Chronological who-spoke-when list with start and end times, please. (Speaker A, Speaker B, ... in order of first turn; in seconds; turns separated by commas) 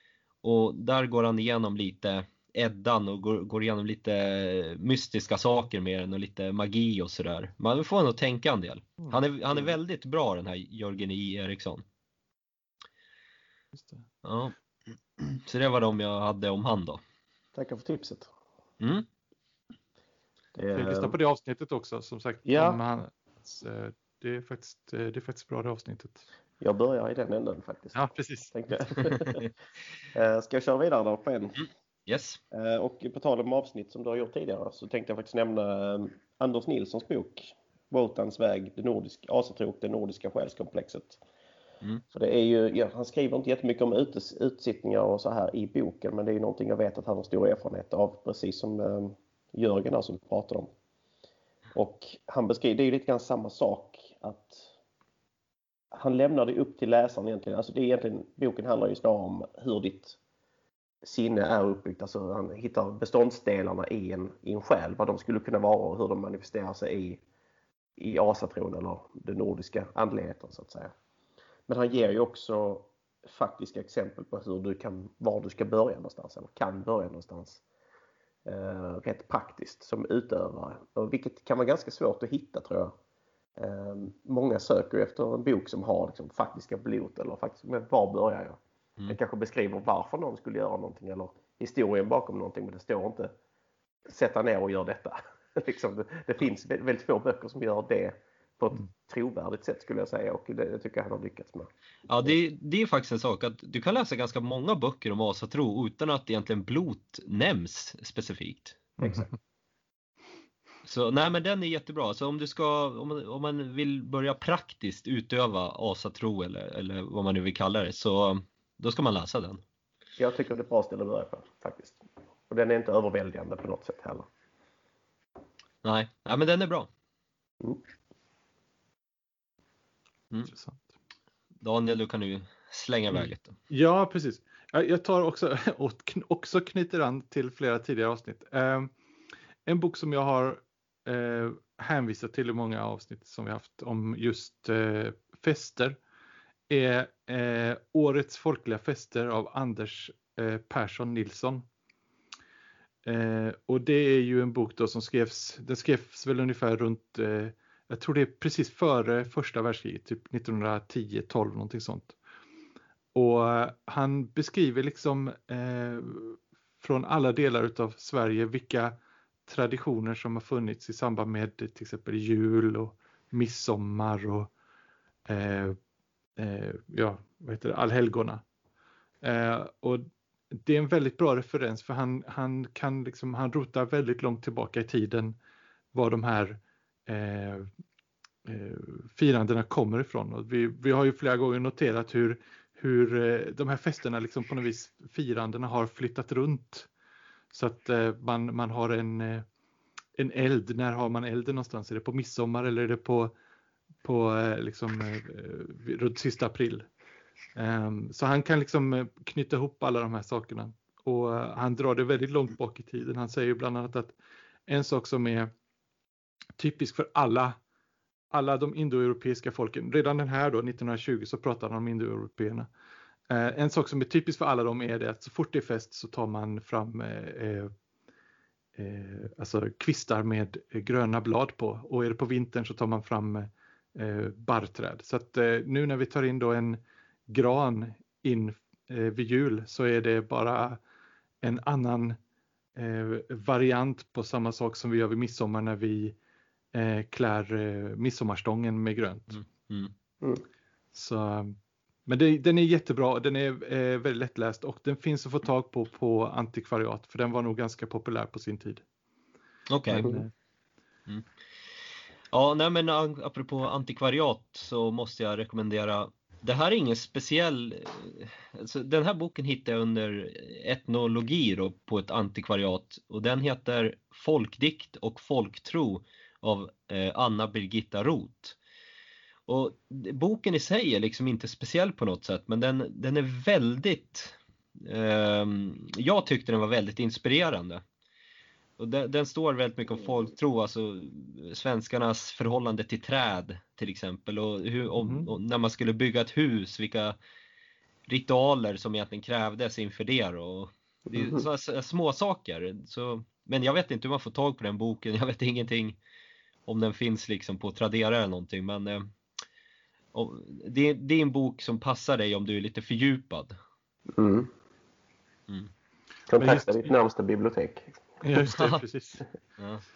Speaker A: 0.4-11.8, Speaker B: 13.7-14.0, Speaker A: 14.2-14.6, Speaker A: 15.2-17.0, Speaker C: 17.6-18.3, Speaker A: 18.8-19.1, Speaker C: 20.6-21.2, Speaker B: 20.7-26.2, Speaker C: 22.5-22.8, Speaker C: 26.6-29.4, Speaker B: 27.9-28.5, Speaker C: 30.1-31.6, Speaker A: 31.6-32.4, Speaker C: 32.5-41.2, Speaker C: 42.1-50.7, Speaker C: 51.7-54.7, Speaker C: 55.9-60.2, Speaker C: 61.0-67.2, Speaker C: 68.0-70.9, Speaker C: 71.7-77.6, Speaker C: 78.5-82.9, Speaker C: 83.6-88.6, Speaker C: 89.1-93.3, Speaker C: 94.1-101.7, Speaker A: 102.1-109.0, Speaker C: 109.0-109.3, Speaker A: 110.8-119.6, Speaker C: 120.2-124.3, Speaker A: 125.8-126.9, Speaker B: 130.5-130.9, Speaker A: 131.6-133.6, Speaker B: 133.2-138.9, Speaker B: 139.7-146.0, Speaker B: 146.7-151.7, Speaker B: 153.1-162.2, Speaker B: 163.1-174.5, Speaker B: 175.3-175.8, Speaker B: 176.4-178.4, Speaker B: 179.2-185.4, Speaker B: 185.9-187.7, Speaker B: 188.4-196.9, Speaker B: 197.5-199.5, Speaker B: 200.2-203.3, Speaker B: 204.0-206.9, Speaker B: 207.6-214.2, Speaker B: 214.7-215.5, Speaker B: 216.6-217.6, Speaker B: 218.3-222.7, Speaker B: 223.3-227.7, Speaker B: 228.8-240.8, Speaker B: 241.4-242.2, Speaker B: 242.8-246.2, Speaker B: 246.7-249.4, Speaker A: 249.3-249.9, Speaker B: 250.9-258.8, Speaker A: 259.7-260.1, Speaker B: 259.9-260.3, Speaker C: 260.0-260.2, Speaker A: 262.3-278.6, Speaker A: 279.5-287.8, Speaker A: 288.8-297.2, Speaker B: 295.0-295.3, Speaker A: 298.1-306.0, Speaker C: 301.1-301.5, Speaker A: 306.7-309.1, Speaker A: 310.1-313.6, Speaker C: 314.1-314.5, Speaker C: 316.3-318.0, Speaker B: 316.4-316.8, Speaker B: 318.2-319.2, Speaker A: 318.4-318.8, Speaker A: 319.6-319.8